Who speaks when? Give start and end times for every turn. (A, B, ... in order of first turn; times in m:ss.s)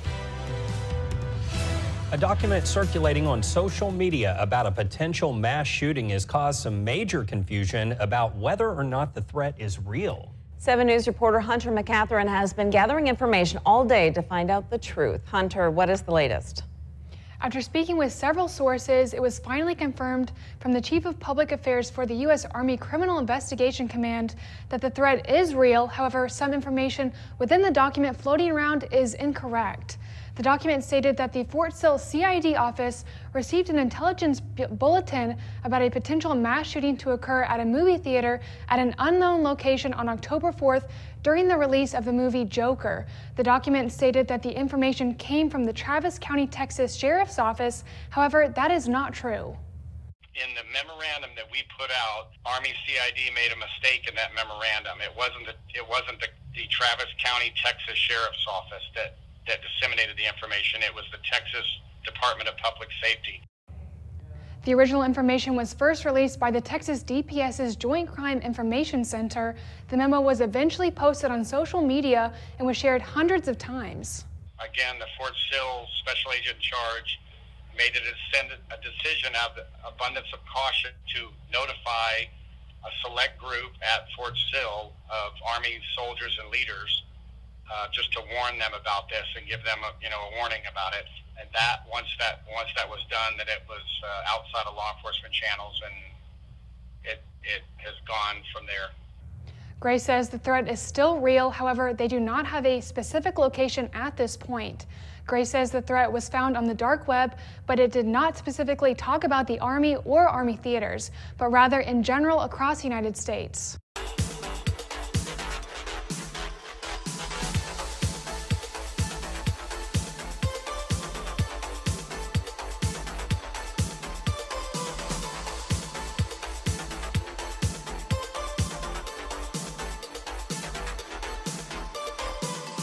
0:02.1-0:10.3 A
0:10.6-0:16.6 B
0:17.4-0:49.6 C
0:50.4-1:03.4 D
1:04.6-1:14.2 C
1:14.6-1:17.2 D
1:17.7-1:22.3 D
1:22.8-1:27.0 D
1:27.7-1:36.1 D
1:37.0-1:38.9 D
1:39.8-1:53.8 C